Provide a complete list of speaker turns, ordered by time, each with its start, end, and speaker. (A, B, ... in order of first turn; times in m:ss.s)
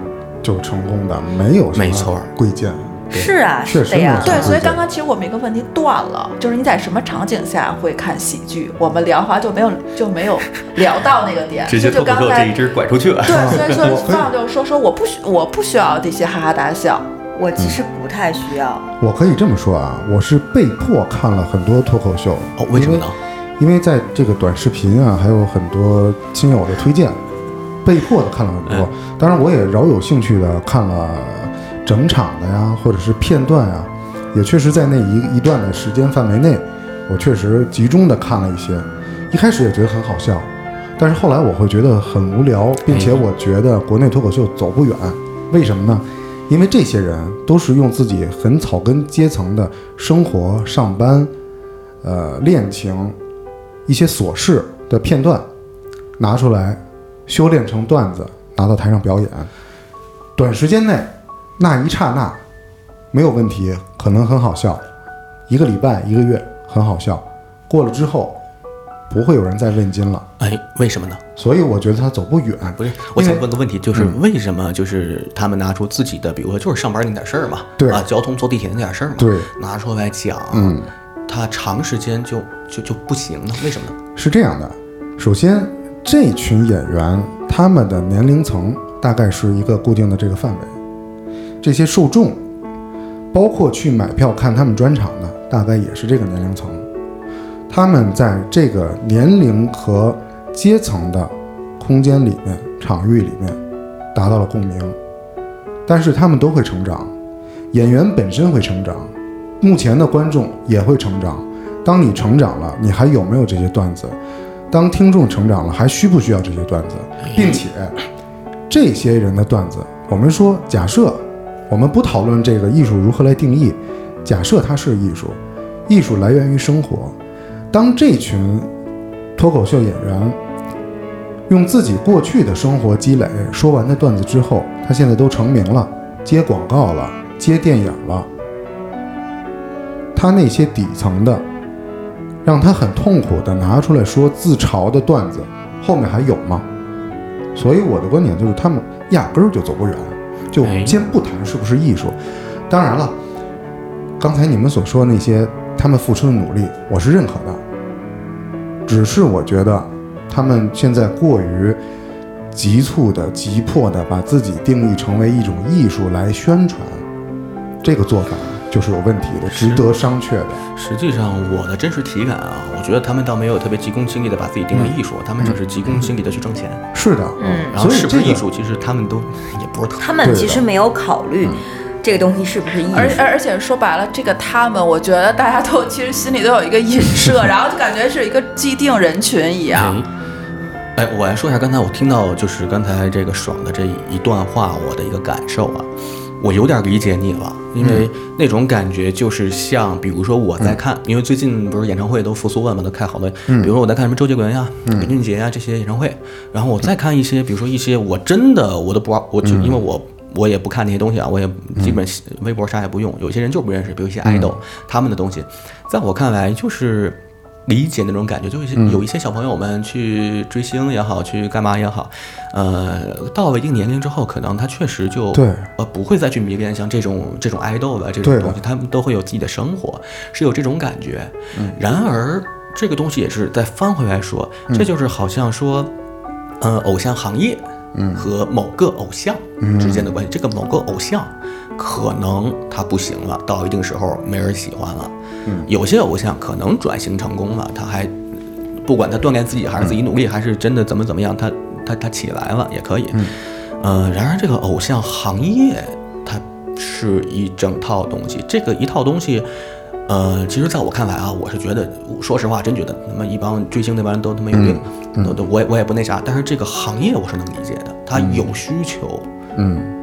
0:00.4-0:03.0 A
0:01.7-0:02.3 B
0:03.1-0:04.6 C
0:03.6-0:04.8 A
0:04.2-0:12.5 D
0:11.6-0:14.0 B
0:13.2-0:17.0 D
0:13.3-0:14.3 A
0:17.3-0:18.9 C
0:19.0-0:23.0 A
0:22.6-0:23.2 B
0:23.6-0:27.2 A
0:27.8-0:51.3 A
0:42.9-0:43.2 B
0:52.0-0:53.2 A
0:53.8-0:55.5 A
0:56.2-0:59.5 A
1:00.4-1:02.4 A
1:03.1-1:04.8 A
1:05.5-1:08.4 A
1:09.1-1:10.3 A
1:10.4-1:11.2 B
1:11.4-1:14.2 A
1:12.8-1:20.8 B
1:17.8-1:18.0 A
1:19.2-1:19.5 A
1:20.5-1:20.9 A
1:21.3-1:24.0 B
1:24.2-1:30.7 A
1:31.6-1:32.4 A
1:33.3-1:36.8 A
1:37.7-1:43.6 A
1:44.1-1:44.9 A
1:45.8-1:47.1 A
1:47.7-1:54.2 A
1:54.7-1:58.0 A
1:57.2-1:57.6 B
1:58.7-2:07.2 A
2:07.7-2:08.7 A
2:09.4-2:10.4 A
2:11.5-2:18.3 A
2:20.1-2:21.4 A
2:22.4-2:26.6 A
2:27.5-2:32.2 A
2:30.6-2:31.0 B
2:32.7-2:33.2 A
2:34.2-2:37.6 A
2:38.8-2:41.8 A
2:42.5-2:47.0 A
2:47.8-2:50.6 A
2:49.5-2:49.8 B
2:50.8-2:56.8 B
2:54.7-2:56.1 A
2:56.9-2:58.4 A
2:57.4-2:57.7 C
2:57.7-3:00.1 B
3:00.0-3:03.2 C
3:00.2-3:00.6 A
3:02.9-3:10.0 D
3:09.7-3:10.1 B
3:11.0-3:15.9 B
3:16.4-3:55.9 B
3:17.8-3:18.1 A
3:23.5-3:23.7 A
3:24.8-3:25.1 A
3:29.4-3:29.8 A
3:34.2-3:34.6 A
3:38.8-3:39.0 A
3:45.3-3:45.7 A
3:48.2-3:48.6 A
3:56.6-3:57.6 B
3:57.9-3:58.3 A
3:58.1-4:05.1 B
3:59.6-4:00.1 A
4:05.7-4:08.1 B
4:08.8-4:19.5 B
4:20.1-4:29.3 B
4:24.5-4:25.4 A
4:28.1-4:28.5 A
4:29.5-4:29.9 A